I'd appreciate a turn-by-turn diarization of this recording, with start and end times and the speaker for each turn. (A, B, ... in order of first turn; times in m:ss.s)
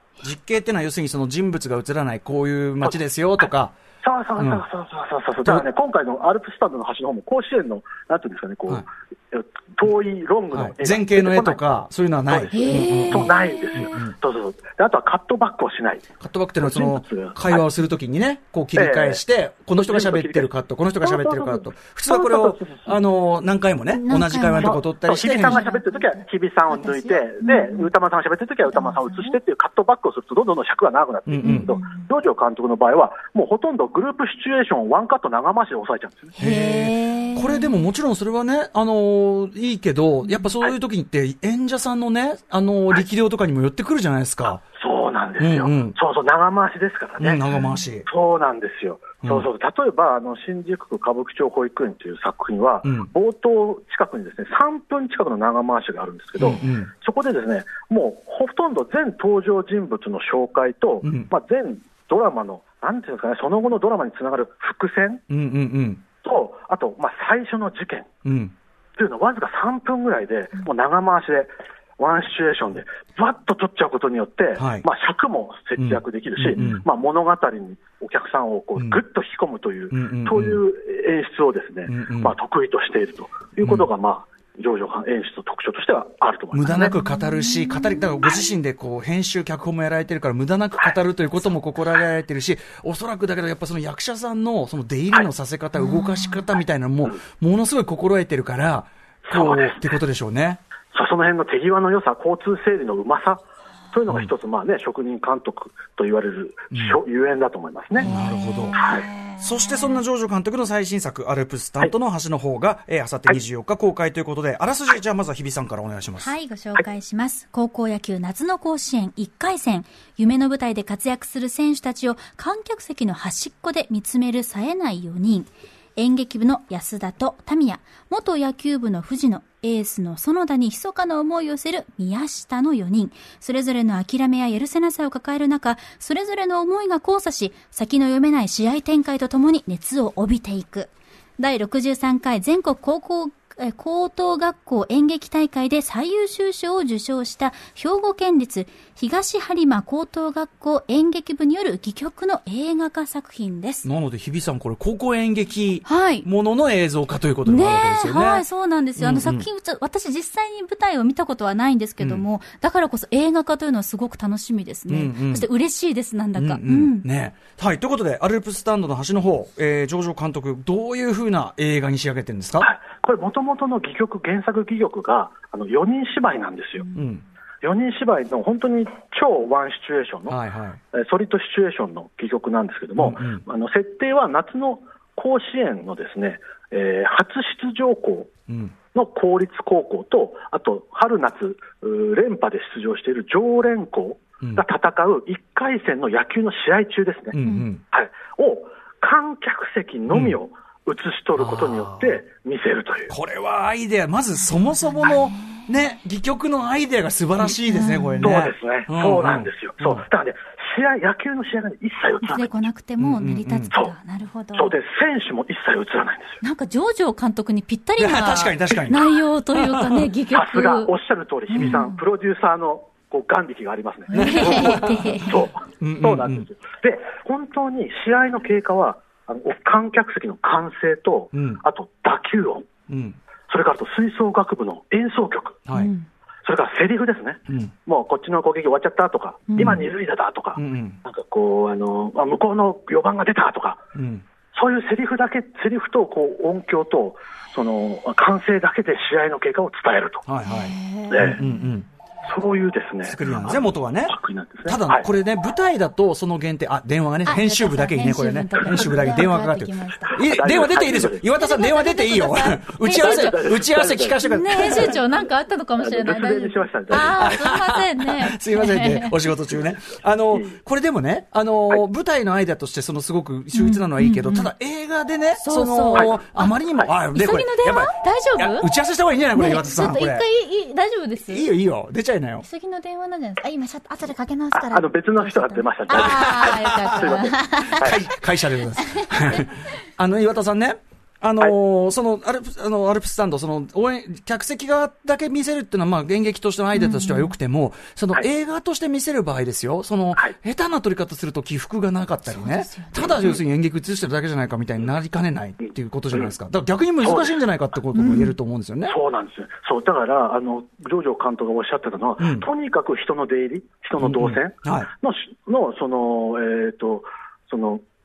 0:00.2-0:03.8 A
0:04.0-0:11.7 B
0:04.4-0:04.6 A
0:10.5-0:14.2 A
0:12.3-0:16.0 B
0:12.5-0:13.9 C
0:16.2-0:25.6 A
0:16.6-0:17.7 B
0:18.7-0:19.2 B
0:19.8-0:23.0 B
0:23.9-0:27.9 C
0:24.6-0:36.3 B
0:28.7-0:29.4 C
0:31.3-0:31.7 A
0:31.4-0:32.0 C
0:36.4-0:37.8 C
0:36.4-0:44.6 A
0:44.7-0:47.4 B
0:45.4-0:46.0 A
0:47.2-0:48.1 A
0:48.1-1:05.2 B
0:49.2-0:49.5 A
0:52.8-0:53.1 A
0:56.4-0:56.9 A
1:01.0-1:01.3 A
1:05.3-1:06.0 A
1:06.2-1:08.1 B
1:08.2-1:08.5 A
1:09.0-1:26.9 B
1:14.6-1:14.9 A
1:15.8-1:16.9 A
1:18.8-1:19.0 A
1:19.9-1:20.6 A
1:21.9-1:22.4 A
1:23.6-1:23.9 A
1:26.5-1:40.6 A
1:39.3-1:39.8 B
1:40.9-1:48.1 B
1:46.7-1:47.0 A
1:48.0-1:49.9 C
1:48.0-1:48.9 A
1:48.7-1:49.1 B
1:49.4-1:56.3 A
1:56.2-2:33.9 C
2:33.8-2:39.5 A
2:35.8-2:36.3 C
2:37.5-2:47.0 C
2:44.9-2:45.5 A
2:46.4-2:52.7 A
2:52.6-2:56.9 B
2:56.9-2:57.2 A
2:57.6-3:00.4 B
3:00.3-3:00.8 A
3:00.9-3:08.3 B
3:03.0-3:03.4 A
3:08.5-3:08.7 A
3:08.9-3:17.4 B
3:17.3-3:17.8 A
3:17.4-3:17.7 C
3:17.9-3:23.1 B
3:20.1-3:20.4 A
3:21.4-3:22.2 A
3:23.1-3:30.0 A
3:25.1-3:25.6 C
3:27.5-3:28.3 C
3:28.2-3:32.5 B
3:32.2-3:34.8 C
3:33.0-3:33.7 A
3:34.5-3:36.4 B
3:36.4-3:40.9 C
3:38.0-3:40.0 A
3:40.3-3:52.7 B
3:41.5-3:42.0 C
3:44.1-3:45.4 C
3:44.1-3:45.2 A
3:45.8-3:46.5 A
3:51.3-3:51.6 A
3:52.9-3:53.2 A
3:53.5-3:55.6 B
3:55.7-3:56.1 C
3:56.4-4:03.8 B
3:57.5-3:57.7 A
3:59.5-3:59.8 C
3:59.6-3:59.8 A
4:00.6-4:01.0 A
4:04.0-4:04.2 A
4:04.5-4:10.2 B
4:10.3-4:11.9 A
4:10.4-4:11.6 C
4:11.1-4:11.4 B
4:12.3-4:15.0 B
4:13.0-4:25.0 A
4:17.2-4:20.2 C
4:20.1-4:21.3 B
4:21.4-4:23.4 C
4:22.9-4:25.0 B
4:24.2-4:29.2 C
4:25.8-4:27.3 B
4:26.9-4:40.3 A
4:30.3-4:30.6 B
4:33.5-4:34.5 C
4:35.4-4:36.5 C
4:35.9-4:36.2 B
4:37.1-4:38.7 C
4:39.4-4:41.5 C
4:41.2-4:42.5 A
4:42.4-4:47.9 C
4:44.5-4:48.0 B
4:45.9-5:09.0 A
4:48.8-4:49.5 C
4:56.7-4:57.4 C
5:02.3-5:03.4 C
5:07.0-5:07.4 B
5:08.0-5:08.3 C
5:08.9-5:17.8 B
5:12.2-5:12.5 A
5:14.0-5:14.9 A